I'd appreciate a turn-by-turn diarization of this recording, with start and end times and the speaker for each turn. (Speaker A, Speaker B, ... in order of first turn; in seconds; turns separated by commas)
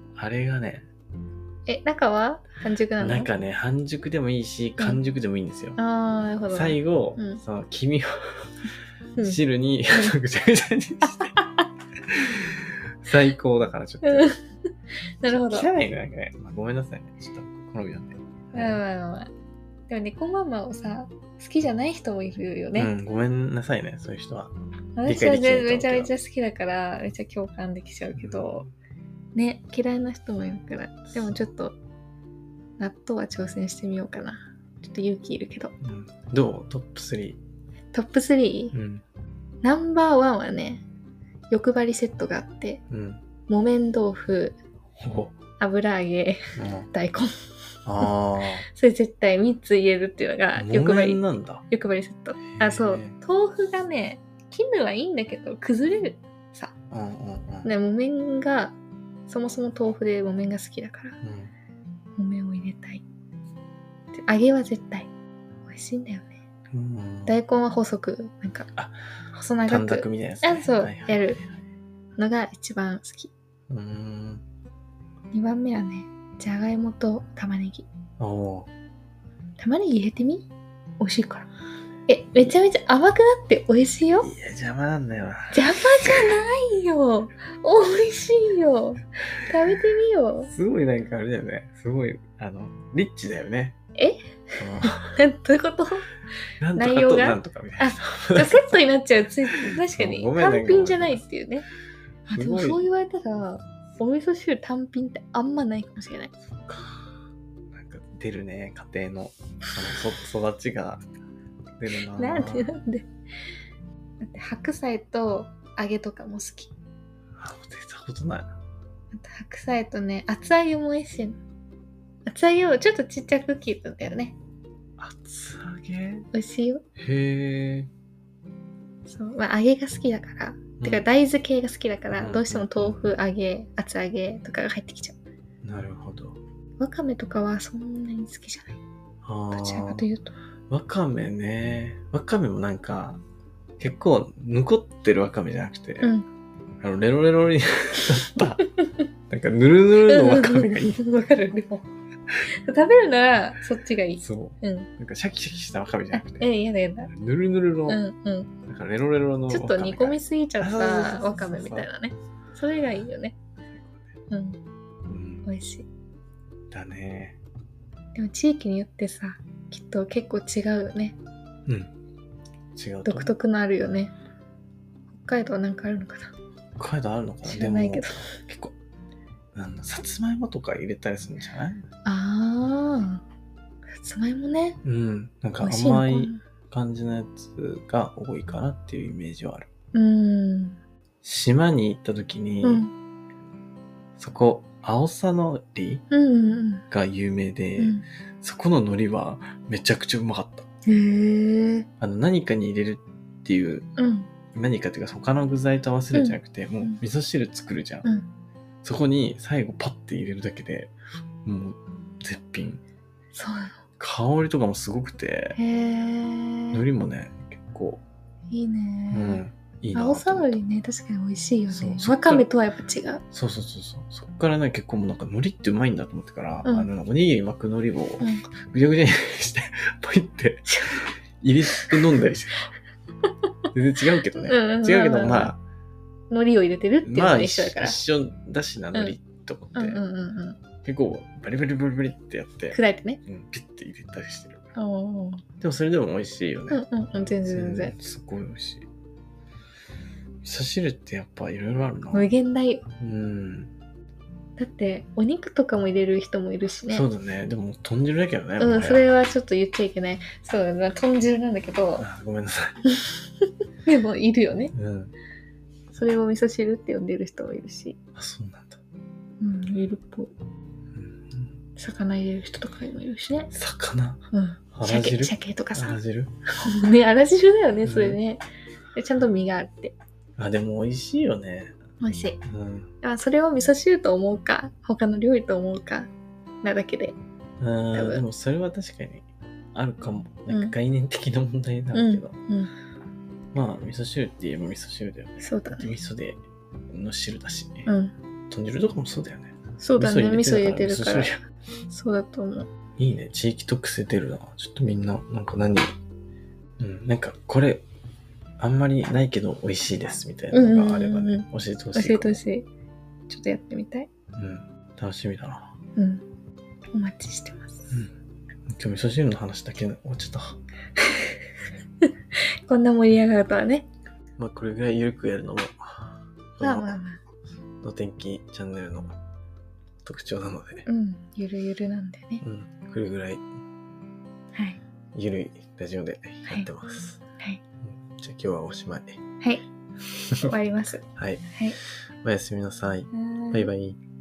Speaker A: 0.2-0.9, Speaker B: 1.7-3.3, Speaker A: 3.0-5.8, Speaker B: 5.8-7.4, Speaker A: 6.5-8.1, Speaker A: 9.2-11.3, Speaker B: 11.1-11.5, Speaker A: 12.1-14.3, Speaker B: 14.0-14.4, Speaker B: 15.2-15.7, Speaker A: 15.3-18.8, Speaker B: 18.5-19.3, Speaker B: 19.9-22.9, Speaker A: 22.8-24.5, Speaker B: 25.0-28.7, Speaker A: 25.1-26.1, Speaker A: 28.1-28.5, Speaker B: 29.4-31.8, Speaker A: 31.1-31.5, Speaker B: 32.8-35.7, Speaker A: 35.8-37.4, Speaker B: 37.9-38.8, Speaker A: 38.7-39.0, Speaker B: 39.6-40.8, Speaker B: 41.5-42.8, Speaker A: 42.9-43.2, Speaker B: 43.5-44.6, Speaker A: 45.0-45.4, Speaker B: 45.6-47.5, Speaker A: 46.6-46.9, Speaker A: 47.9-48.7, Speaker B: 48.6-56.7, Speaker A: 50.5-51.6, Speaker A: 52.6-53.2, Speaker A: 56.9-57.8, Speaker B: 57.6-58.8, Speaker B: 59.3-61.2, Speaker A: 61.2-61.5, Speaker B: 62.2-63.0, Speaker B: 64.1-65.1, Speaker B: 65.7-66.4, Speaker A: 66.7-67.4, Speaker B: 67.3-68.7, Speaker B: 69.3-71.4, Speaker A: 69.7-71.4, Speaker B: 72.2-73.3, Speaker A: 73.7-74.4, Speaker B: 75.3-77.9, Speaker A: 78.2-78.7, Speaker B: 79.6-80.5, Speaker B: 81.0-81.5, Speaker B: 82.1-84.3, Speaker A: 84.2-86.3, Speaker B: 85.5-90.5, Speaker A: 90.5-93.8, Speaker B: 94.0-96.1, Speaker A: 94.6-95.2, Speaker A: 96.6-98.8, Speaker B: 96.8-101.7, Speaker A: 99.5-101.2, Speaker B: 102.3-106.3, Speaker A: 102.3-102.8, Speaker A: 106.6-107.1, Speaker A: 107.7-111.0, Speaker A: 111.8-112.7, Speaker B: 112.1-113.1, Speaker B: 114.2-116.7, Speaker A: 117.4-118.5, Speaker B: 119.1-121.4, Speaker B: 122.3-124.4, Speaker A: 125.0-126.3, Speaker B: 126.3-126.8, Speaker A: 127.0-127.9, Speaker B: 129.1-135.2, Speaker A: 130.8-131.1, Speaker A: 132.1-133.1, Speaker A: 135.6-136.4, Speaker B: 136.8-138.8, Speaker A: 139.2-140.1, Speaker B: 139.5-140.3, Speaker A: 140.7-143.2, Speaker A: 143.8-146.1, Speaker A: 146.8-148.7, Speaker A: 149.3-151.0, Speaker B: 150.1-151.9, Speaker B: 152.5-154.9, Speaker A: 154.2-156.5, Speaker B: 156.1-157.1, Speaker A: 157.1-158.0, Speaker B: 157.9-158.5, Speaker A: 158.7-161.9, Speaker B: 159.5-163.4, Speaker A: 163.7-164.1, Speaker B: 164.3-164.6, Speaker A: 165.1-165.5, Speaker B: 165.4-165.9, Speaker A: 166.7-167.4, Speaker B: 168.2-171.2, Speaker A: 172.8-173.3, Speaker B: 173.1-174.1, Speaker B: 175.1-176.3, Speaker A: 176.8-178.8, Speaker B: 177.4-178.3, Speaker A: 179.6-181.9, Speaker B: 182.1-183.2, Speaker B: 184.0-184.8, Speaker A: 184.8-189.7, Speaker B: 185.6-186.4, Speaker B: 189.9-190.8, Speaker A: 191.2-192.9, Speaker B: 192.6-192.9, Speaker A: 194.2-196.1, Speaker B: 196.1-196.8, Speaker A: 196.9-200.7, Speaker B: 197.8-198.0, Speaker B: 200.9-201.9, Speaker A: 202.0-203.9, Speaker B: 204.0-204.3, Speaker A: 204.5-208.1, Speaker B: 206.1-207.0, Speaker A: 208.8-210.9, Speaker A: 211.4-212.8, Speaker B: 213.3-213.8, Speaker A: 214.0-215.6, Speaker B: 215.6-216.8, Speaker A: 216.7-218.0, Speaker B: 218.5-223.2, Speaker A: 219.1-220.6, Speaker A: 221.7-222.5, Speaker A: 223.3-232.7, Speaker B: 230.7-231.1, Speaker B: 231.7-232.0, Speaker A: 233.7-235.6, Speaker B: 234.4-235.5, Speaker B: 236.3-238.0, Speaker A: 237.0-240.0, Speaker B: 239.8-240.6, Speaker A: 240.8-244.7, Speaker B: 242.7-243.2, Speaker B: 244.8-245.4, Speaker A: 245.6-248.9, Speaker B: 246.7-247.9, Speaker A: 250.4-252.3, Speaker B: 252.1-252.8, Speaker A: 253.0-253.7, Speaker B: 254.6-257.1, Speaker A: 256.9-259.1, Speaker B: 258.6-262.1, Speaker A: 262.0-262.8, Speaker B: 263.9-264.7, Speaker A: 264.7-265.1, Speaker B: 265.9-268.0, Speaker A: 268.1-268.8, Speaker B: 269.4-270.3, Speaker A: 270.9-271.5, Speaker B: 271.8-273.5, Speaker A: 273.5-276.3, Speaker B: 274.3-276.0, Speaker B: 276.6-278.4, Speaker A: 277.8-278.2, Speaker B: 278.9-279.9, Speaker A: 280.4-281.8, Speaker B: 282.0-282.4, Speaker A: 282.4-282.9, Speaker B: 283.0-286.1, Speaker B: 286.6-287.2, Speaker A: 287.6-292.4, Speaker B: 287.9-288.2, Speaker B: 290.5-290.7, Speaker B: 291.9-292.7, Speaker A: 293.5-296.4, Speaker B: 295.4-295.9, Speaker A: 296.9-297.9, Speaker B: 297.9-298.1, Speaker A: 298.5-301.4, Speaker B: 299.8-301.3, Speaker B: 301.9-302.7, Speaker A: 303.0-305.9, Speaker A: 306.8-307.9, Speaker A: 308.6-312.4, Speaker B: 310.5-312.7, Speaker B: 313.3-314.1, Speaker A: 314.4-315.8, Speaker B: 316.0-316.2, Speaker B: 316.9-317.9, Speaker A: 318.7-320.6, Speaker B: 321.0-321.3, Speaker B: 322.7-323.9, Speaker A: 324.4-327.0, Speaker B: 326.6-327.2, Speaker A: 327.8-329.2, Speaker A: 330.0-330.9, Speaker B: 330.9-332.4, Speaker A: 332.4-333.4, Speaker B: 334.5-334.8, Speaker A: 335.1-337.2, Speaker A: 337.9-339.2, Speaker A: 340.1-340.5, Speaker B: 340.4-341.8, Speaker A: 341.2-341.5, Speaker A: 342.2-344.0, Speaker B: 343.1-343.7